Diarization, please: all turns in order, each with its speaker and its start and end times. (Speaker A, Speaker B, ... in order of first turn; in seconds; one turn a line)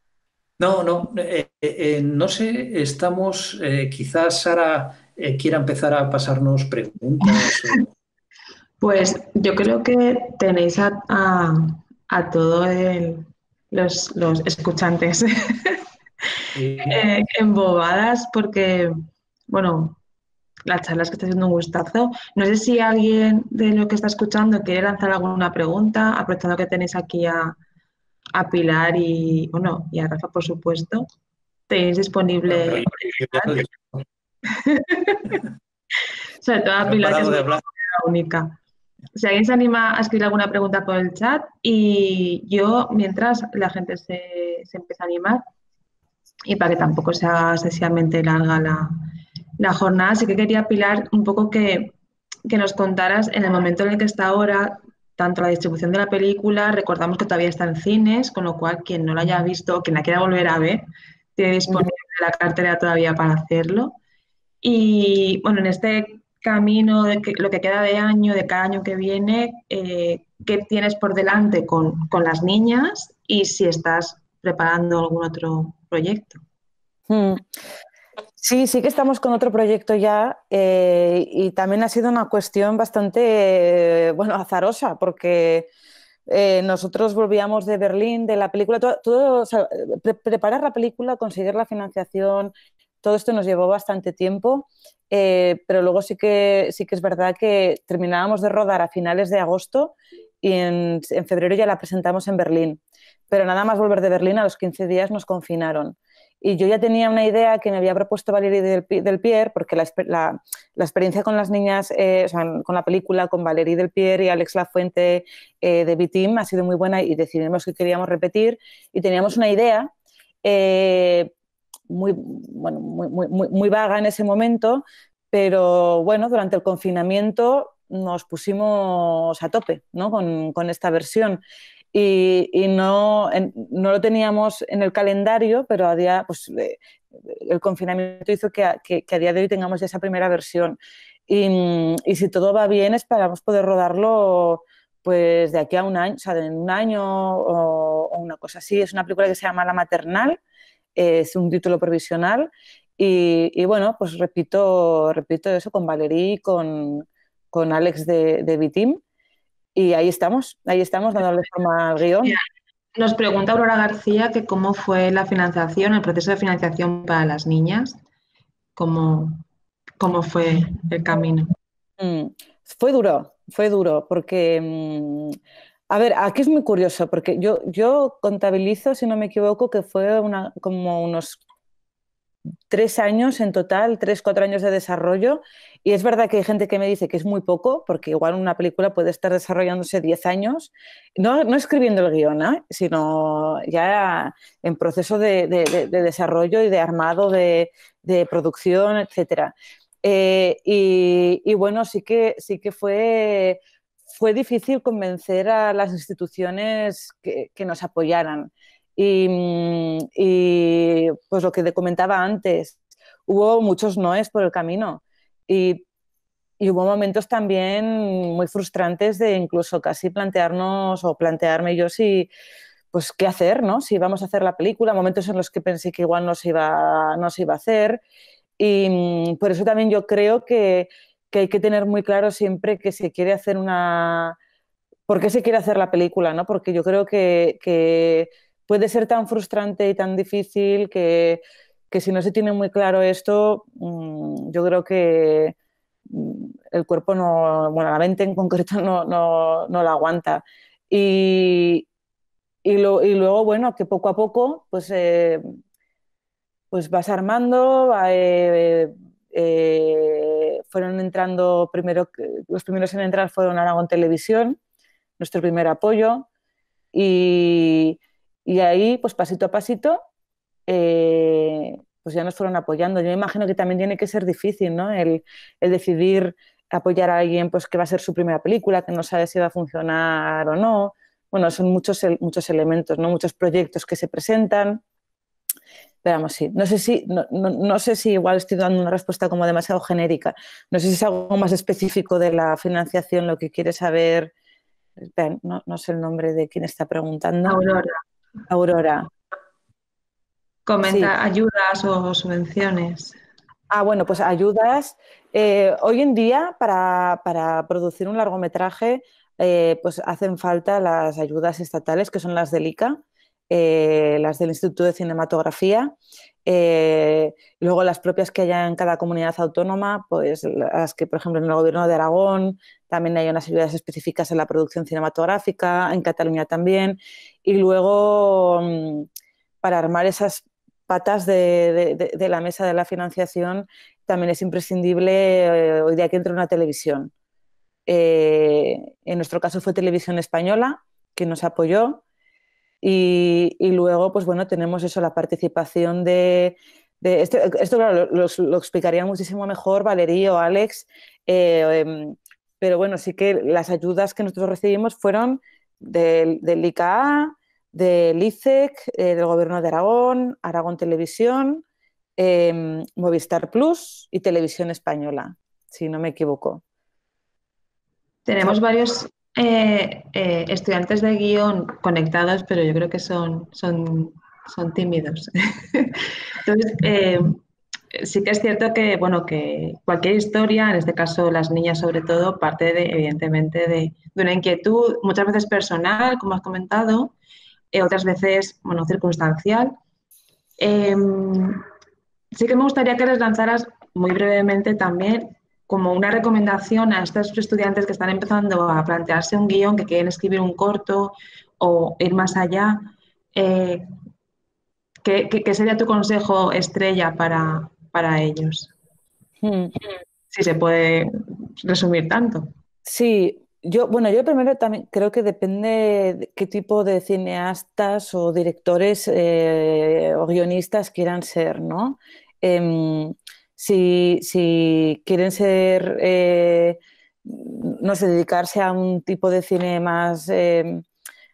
Speaker A: 0.6-7.9
Speaker B: 8.8-15.8
Speaker A: 16.5-17.0
Speaker B: 16.9-19.0
Speaker B: 19.5-20.0
Speaker B: 20.6-27.6
Speaker B: 28.3-31.1
Speaker B: 31.7-33.6
Speaker A: 32.5-34.0
Speaker B: 34.5-35.4
Speaker B: 36.4-38.6
Speaker A: 36.8-37.6
Speaker B: 39.1-45.4
Speaker B: 46.5-49.0
Speaker B: 49.6-52.0
Speaker B: 52.5-60.9
Speaker B: 61.4-64.0
Speaker B: 64.6-76.4
Speaker C: 77.1-77.5
Speaker C: 78.4-85.7
Speaker C: 86.3-92.5
Speaker C: 93.0-119.9
Speaker C: 120.4-121.3
Speaker C: 121.9-131.4
Speaker C: 131.9-150.4
Speaker C: 150.9-159.0
Speaker C: 159.7-162.4
Speaker B: 162.9-168.0
Speaker B: 168.8-169.4
Speaker B: 170.0-171.6
Speaker C: 172.0-175.4
Speaker C: 175.9-181.4
Speaker C: 182.7-203.6
Speaker C: 204.1-215.8
Speaker C: 216.6-222.3
Speaker C: 222.9-228.0
Speaker C: 228.6-234.4
Speaker C: 235.1-245.6
Speaker C: 246.1-251.9
Speaker C: 252.6-255.5
Speaker C: 256.7-264.6
Speaker C: 265.2-266.3
Speaker C: 266.9-270.0
Speaker C: 270.7-284.8
Speaker C: 286.0-294.3
Speaker C: 295.1-297.6
Speaker B: 297.4-297.9
Speaker C: 298.5-299.1
Speaker B: 300.7-303.2
Speaker C: 300.8-301.1
Speaker C: 303.7-313.0
Speaker C: 313.5-315.9
Speaker C: 316.4-329.1
Speaker C: 329.6-337.1
Speaker C: 337.9-342.0
Speaker C: 342.8-361.6
Speaker C: 362.2-366.6
Speaker B: 368.3-377.4
Speaker B: 377.9-387.1
Speaker B: 387.7-389.7
Speaker B: 390.6-391.6
Speaker B: 392.3-403.9
Speaker B: 405.0-408.7
Speaker C: 409.4-409.7
Speaker B: 410.3-412.5
Speaker C: 412.9-430.8